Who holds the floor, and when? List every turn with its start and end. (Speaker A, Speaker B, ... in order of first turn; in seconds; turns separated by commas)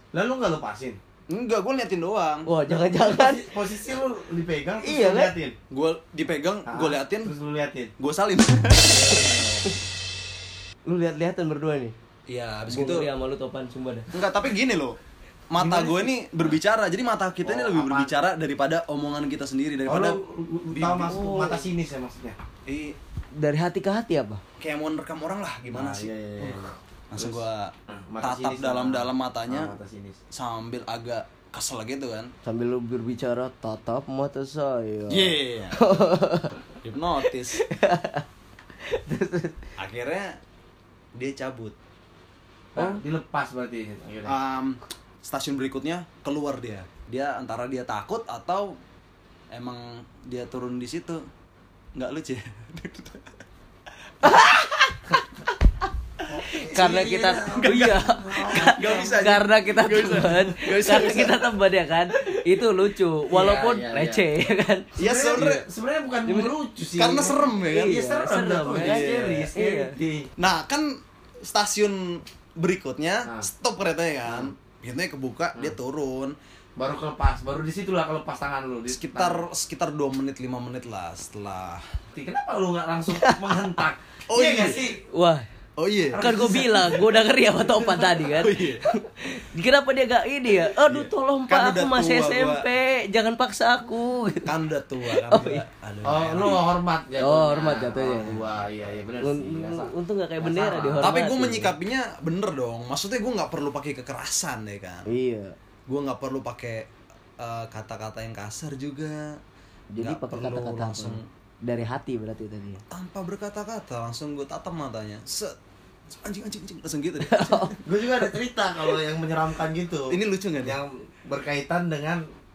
Speaker A: 0.1-1.0, Speaker B: 1.3-2.5, Speaker C: 2.5-3.5, Speaker A: 2.7-5.5, Speaker C: 4.8-5.3, Speaker B: 5.7-7.3, Speaker A: 6.7-7.9, Speaker B: 8.0-9.4, Speaker A: 8.9-9.7, Speaker C: 10.8-11.9, Speaker B: 12.3-13.1, Speaker C: 12.7-14.1, Speaker B: 14.1-15.0, Speaker B: 15.5-20.2, Speaker A: 15.6-16.5, Speaker A: 17.4-18.2, Speaker A: 19.8-22.4, Speaker B: 20.7-21.2, Speaker C: 21.1-21.6, Speaker B: 22.6-23.0, Speaker C: 23.3-24.4, Speaker B: 24.6-26.6, Speaker A: 25.7-30.2, Speaker B: 27.1-29.8, Speaker B: 30.3-32.3, Speaker C: 32.4-36.6, Speaker B: 35.1-35.8, Speaker B: 36.8-37.6, Speaker C: 37.2-38.2, Speaker C: 38.8-39.6, Speaker B: 39.8-40.4, Speaker B: 41.1-41.7, Speaker A: 42.7-44.3, Speaker C: 42.8-43.0, Speaker B: 44.2-48.7, Speaker B: 49.5-51.2, Speaker B: 51.9-53.2, Speaker C: 54.2-55.2, Speaker A: 56.3-59.2, Speaker C: 56.5-64.9, Speaker B: 57.5-61.5, Speaker A: 63.3-64.2, Speaker B: 65.0-65.6, Speaker A: 65.0-70.3, Speaker C: 66.2-66.5, Speaker B: 67.0-68.0, Speaker C: 67.6-69.9, Speaker B: 68.6-69.5, Speaker B: 70.4-76.3, Speaker A: 74.2-74.5, Speaker A: 76.8-79.4, Speaker B: 78.9-81.8, Speaker A: 82.1-85.0, Speaker C: 83.1-83.5, Speaker B: 84.3-84.9, Speaker C: 85.0-85.4, Speaker B: 85.8-86.3, Speaker A: 86.1-87.1, Speaker C: 86.2-94.5, Speaker B: 87.7-88.8, Speaker B: 90.6-92.7, Speaker B: 94.4-96.7, Speaker C: 95.1-95.6, Speaker A: 96.0-101.2, Speaker C: 97.2-98.4, Speaker C: 99.2-101.7, Speaker B: 101.0-105.1, Speaker C: 105.1-105.5, Speaker B: 105.9-109.4, Speaker C: 109.9-112.8, Speaker B: 110.0-111.3, Speaker B: 112.9-115.5, Speaker B: 116.1-117.7, Speaker C: 117.2-117.8, Speaker A: 117.8-122.2, Speaker B: 120.1-120.8